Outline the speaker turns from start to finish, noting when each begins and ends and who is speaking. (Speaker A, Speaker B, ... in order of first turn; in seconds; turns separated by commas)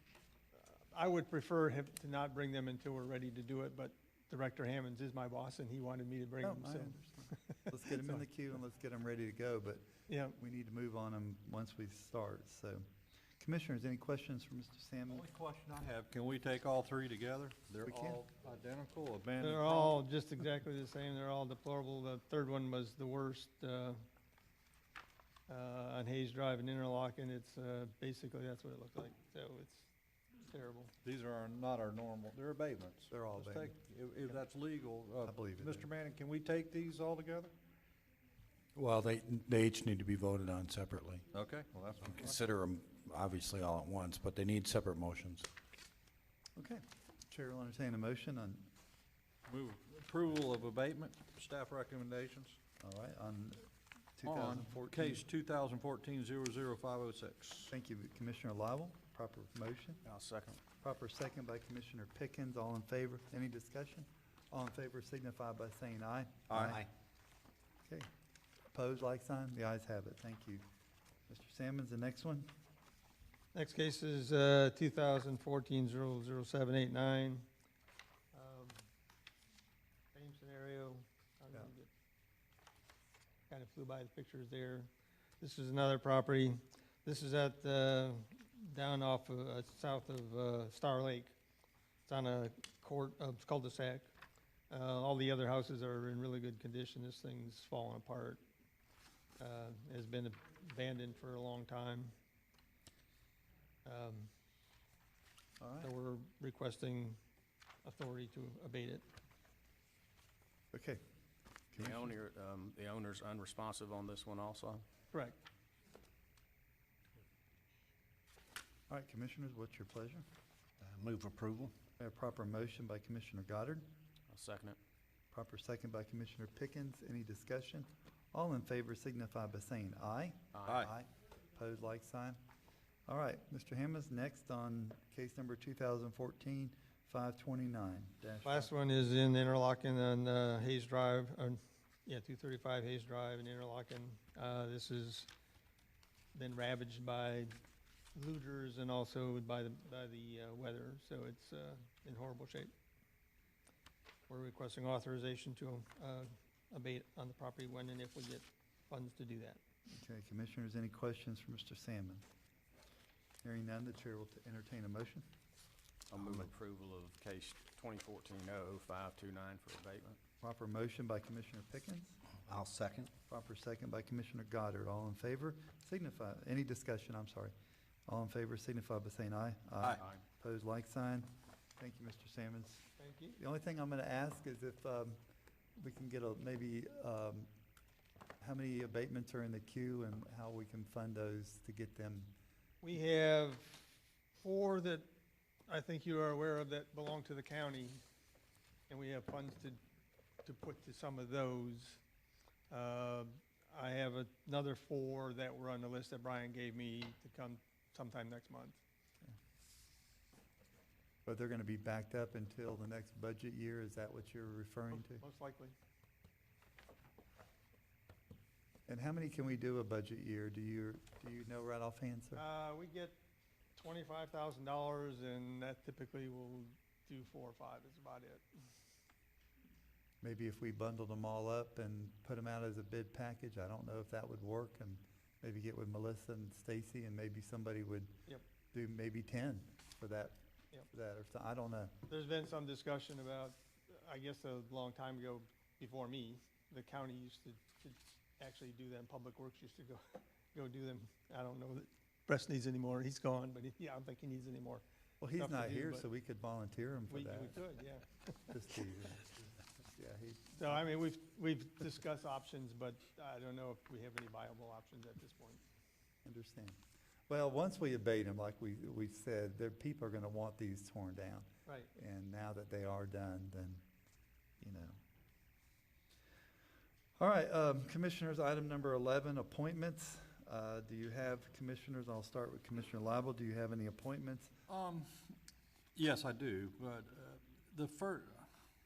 Speaker A: 0.5-8.2, Speaker B: 6.4-12.8, Speaker A: 10.1-10.4, Speaker B: 13.4-15.3, Speaker C: 15.1-20.0, Speaker B: 17.8-18.2, Speaker A: 19.4-24.0, Speaker A: 25.5-29.9, Speaker A: 30.4-30.9, Speaker C: 31.0-37.5, Speaker B: 33.1-33.8, Speaker B: 35.2-35.9, Speaker D: 38.8-41.2, Speaker C: 41.3-42.4, Speaker D: 42.0-45.5, Speaker B: 46.5-48.7, Speaker C: 49.5-52.6, Speaker B: 52.8-55.2, Speaker C: 54.2-57.7, Speaker B: 57.7-60.0, Speaker E: 60.0-60.6, Speaker B: 60.8-66.8, Speaker C: 66.5-66.8, Speaker B: 68.7-70.6, Speaker B: 71.3-72.5, Speaker A: 73.5-77.5, Speaker A: 78.3-78.8, Speaker A: 80.1-81.9, Speaker A: 83.5-91.3, Speaker A: 92.1-94.1, Speaker A: 94.7-98.4, Speaker A: 99.4-102.1, Speaker A: 103.8-104.3, Speaker B: 105.6-105.9, Speaker A: 105.8-107.2, Speaker A: 107.8-109.0, Speaker B: 110.7-111.0, Speaker B: 111.7-112.1, Speaker E: 111.8-114.8, Speaker A: 115.1-115.4, Speaker B: 118.9-120.2, Speaker D: 120.8-121.7, Speaker B: 122.0-123.9, Speaker E: 124.3-124.8, Speaker B: 125.3-132.4, Speaker E: 130.5-130.8, Speaker C: 130.7-130.9, Speaker B: 133.1-138.7, Speaker A: 138.4-145.3, Speaker A: 146.3-147.5, Speaker A: 148.1-152.7, Speaker A: 154.3-159.6, Speaker B: 159.9-162.3, Speaker B: 163.4-165.3, Speaker E: 166.1-170.2, Speaker B: 166.1-166.5, Speaker B: 170.4-172.2, Speaker D: 172.5-173.1, Speaker B: 173.3-177.5, Speaker B: 178.1-185.2, Speaker A: 183.0-183.4, Speaker B: 185.8-187.5, Speaker B: 188.4-192.3, Speaker A: 192.8-193.8, Speaker A: 194.4-195.1, Speaker A: 195.7-198.0, Speaker A: 198.9-199.8, Speaker A: 200.4-202.0, Speaker A: 202.7-208.8, Speaker B: 211.2-215.2, Speaker A: 214.9-215.7, Speaker B: 218.9-222.4, Speaker A: 222.3-223.2, Speaker A: 223.7-228.4, Speaker B: 230.2-238.1, Speaker B: 238.7-241.9, Speaker A: 242.1-254.8, Speaker B: 255.2-257.6, Speaker A: 255.3-256.1, Speaker A: 257.1-258.5, Speaker B: 258.5-260.8, Speaker A: 260.6-265.6, Speaker B: 266.2-273.8, Speaker B: 274.6-275.0, Speaker B: 277.2-284.5, Speaker C: 284.7-285.3, Speaker C: 285.9-288.5